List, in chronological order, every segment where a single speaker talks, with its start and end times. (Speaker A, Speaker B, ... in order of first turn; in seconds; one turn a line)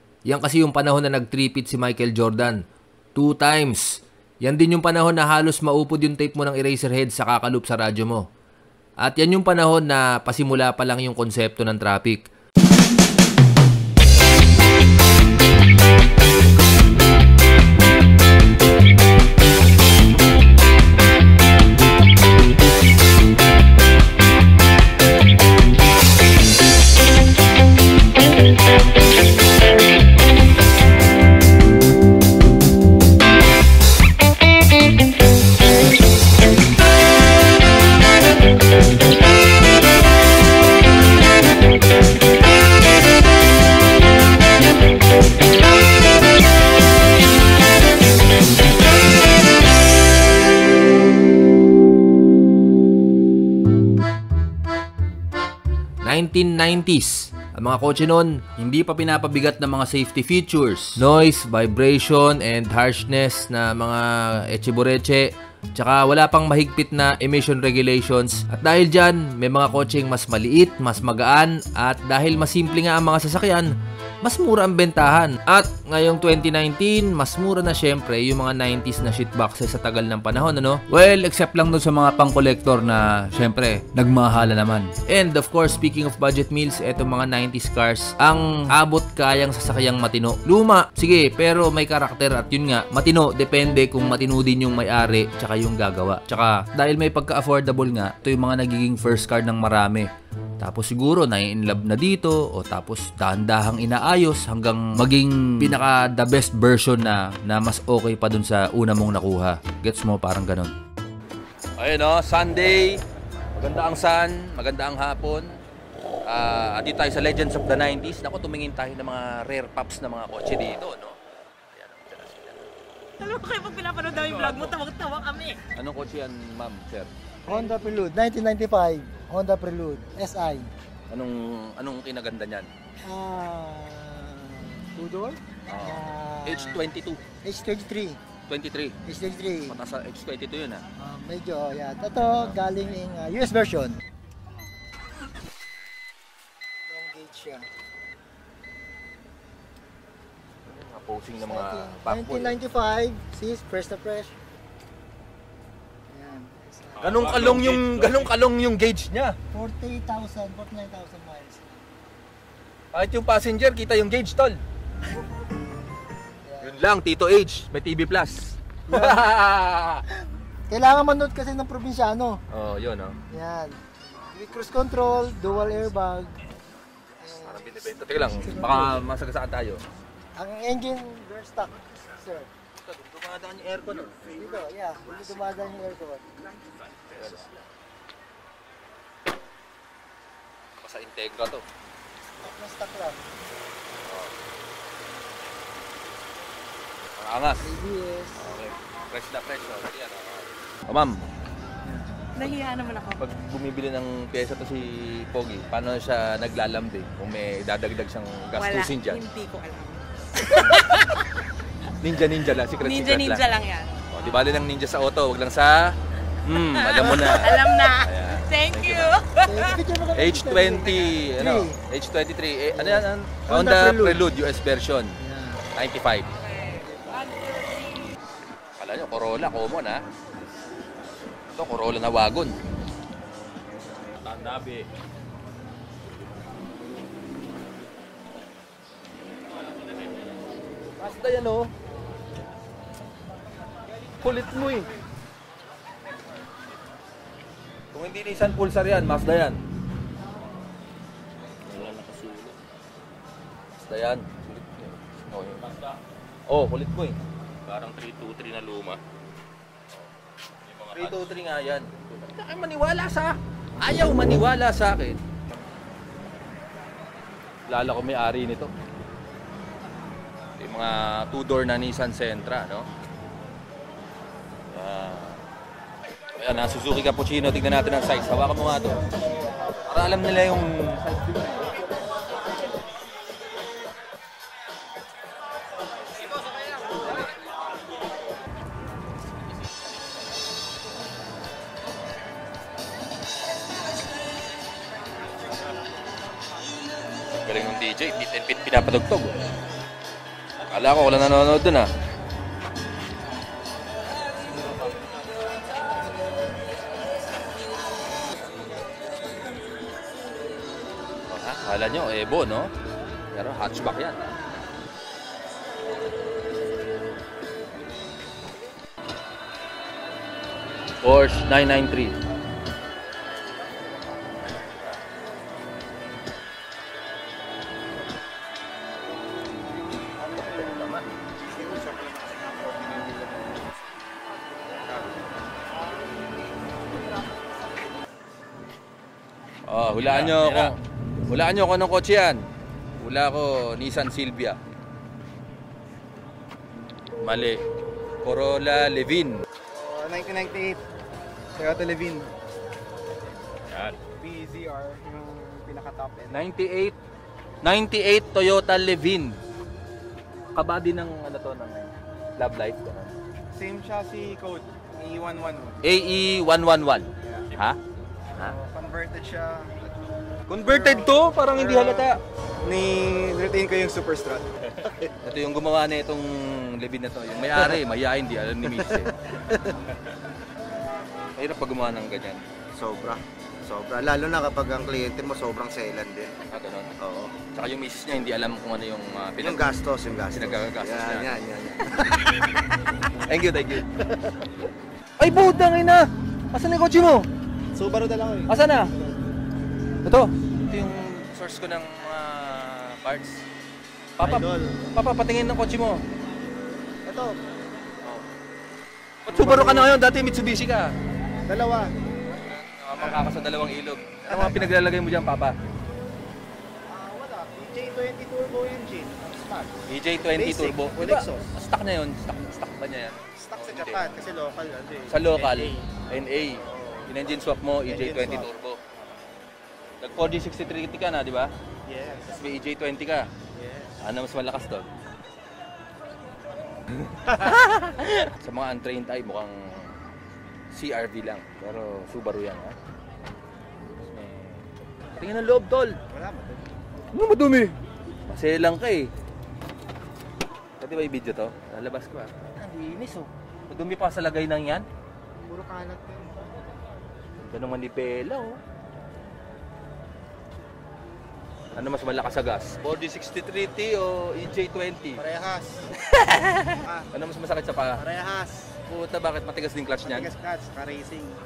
Speaker A: 0.3-2.6
Speaker A: 3.1-8.3
Speaker A: 9.0-12.3
Speaker A: 56.0-100.1
Speaker A: 100.6-110.7
Speaker A: 111.8-113.0
Speaker A: 113.5-115.5
Speaker A: 116.3-121.2
Speaker A: 121.7-122.7
Speaker B: 123.2-125.6
Speaker A: 125.8-127.1
Speaker C: 127.5-130.7
Speaker A: 131.1-132.7
Speaker C: 133.0-136.8
Speaker A: 135.7-137.2
Speaker C: 137.4-138.2
Speaker A: 138.5-138.9
Speaker C: 139.1-139.8
Speaker A: 139.7-140.8
Speaker C: 141.0-144.0
Speaker A: 142.3-142.6
Speaker C: 146.9-147.7
Speaker A: 150.7-152.6
Speaker C: 151.4-154.4
Speaker C: 156.1-157.3
Speaker D: 157.0-158.3
Speaker A: 157.0-159.4
Speaker C: 159.5-162.0
Speaker A: 162.9-164.6
Speaker C: 166.4-166.8
Speaker A: 166.6-170.0
Speaker C: 168.9-169.3
Speaker C: 170.7-172.4
Speaker A: 172.5-173.2
Speaker C: 173.3-176.4
Speaker C: 177.2-179.0
Speaker A: 177.3-179.8
Speaker C: 180.3-182.5
Speaker A: 182.8-184.2
Speaker C: 184.3-186.2
Speaker A: 187.2-187.6
Speaker A: 190.8-191.6
Speaker C: 192.4-193.2
Speaker A: 194.1-194.3
Speaker A: 197.2-197.7
Speaker C: 197.6-198.4
Speaker A: 198.3-201.2
Speaker B: 202.4-203.2
Speaker A: 203.2-209.2
Speaker B: 208.6-211.2
Speaker A: 212.0-213.5
Speaker B: 212.8-213.9
Speaker A: 214.1-215.8
Speaker A: 216.5-219.2
Speaker B: 216.7-219.8
Speaker C: 219.4-221.8
Speaker A: 220.1-225.2
Speaker C: 222.7-224.3
Speaker C: 225.2-225.7
Speaker A: 225.8-226.3
Speaker C: 226.8-227.2
Speaker A: 228.8-230.0
Speaker A: 231.5-232.5
Speaker D: 234.3-234.8
Speaker A: 241.0-241.7
Speaker A: 244.2-244.9
Speaker A: 247.9-249.6
Speaker D: 251.7-252.6
Speaker A: 251.7-251.9
Speaker A: 253.8-255.6
Speaker D: 255.6-256.0
Speaker A: 256.5-257.2
Speaker D: 257.7-259.0
Speaker D: 260.7-261.3
Speaker A: 260.9-265.2
Speaker A: 267.7-268.7
Speaker A: 270.6-272.9
Speaker A: 274.7-275.4
Speaker A: 276.4-279.0
Speaker A: 279.9-281.7
Speaker A: 297.3-299.4
Speaker A: 300.7-301.9
Speaker A: 311.3-312.7
Speaker A: 313.3-314.3
Speaker A: 321.0-322.2
Speaker A: 330.5-331.1
Speaker E: 331.5-333.7
Speaker E: 334.8-335.2
Speaker A: 339.7-340.8
Speaker D: 340.1-340.7
Speaker A: 341.3-342.4
Speaker A: 343.0-344.6
Speaker A: 347.2-347.6
Speaker A: 348.2-349.4
Speaker E: 349.7-350.8
Speaker E: 351.6-352.3
Speaker D: 353.7-354.0
Speaker E: 354.2-356.4
Speaker A: 356.3-357.0
Speaker A: 357.6-359.4
Speaker A: 360.5-363.1
Speaker E: 363.6-365.8
Speaker A: 365.8-367.8
Speaker E: 367.2-367.5
Speaker E: 368.4-370.0
Speaker A: 370.5-372.2
Speaker E: 370.5-372.1
Speaker E: 372.6-375.1
Speaker A: 375.2-379.1
Speaker A: 381.4-382.4
Speaker F: 382.7-386.4
Speaker A: 386.5-386.9
Speaker F: 387.0-387.3
Speaker A: 387.5-389.8
Speaker F: 389.4-392.5
Speaker A: 390.3-391.3
Speaker A: 393.3-393.9
Speaker A: 395.2-397.3
Speaker E: 397.7-399.2
Speaker A: 398.5-398.9
Speaker A: 400.1-403.4
Speaker A: 404.2-406.0
Speaker E: 404.2-404.8
Speaker E: 407.1-407.4
Speaker A: 409.3-410.9
Speaker E: 409.3-409.9
Speaker E: 411.5-411.9
Speaker A: 412.5-415.6
Speaker E: 414.3-414.7
Speaker E: 416.9-421.5
Speaker A: 419.9-424.1
Speaker E: 423.4-425.9
Speaker A: 425.1-428.8
Speaker E: 426.7-427.1
Speaker E: 427.9-428.5
Speaker A: 430.0-431.5
Speaker E: 431.9-432.5
Speaker A: 432.3-433.3
Speaker E: 433.5-433.9
Speaker A: 434.0-434.9
Speaker A: 437.2-437.5
Speaker A: 438.4-439.6
Speaker A: 440.7-442.8
Speaker A: 444.1-444.6
Speaker A: 445.1-446.0
Speaker E: 446.1-446.7
Speaker A: 447.1-447.8
Speaker A: 448.3-449.1
Speaker A: 450.8-454.9
Speaker E: 455.4-456.5
Speaker A: 457.4-458.6
Speaker A: 461.8-465.2
Speaker E: 465.2-465.9
Speaker A: 466.6-468.0
Speaker E: 468.0-468.6
Speaker A: 468.9-470.3
Speaker E: 470.1-471.4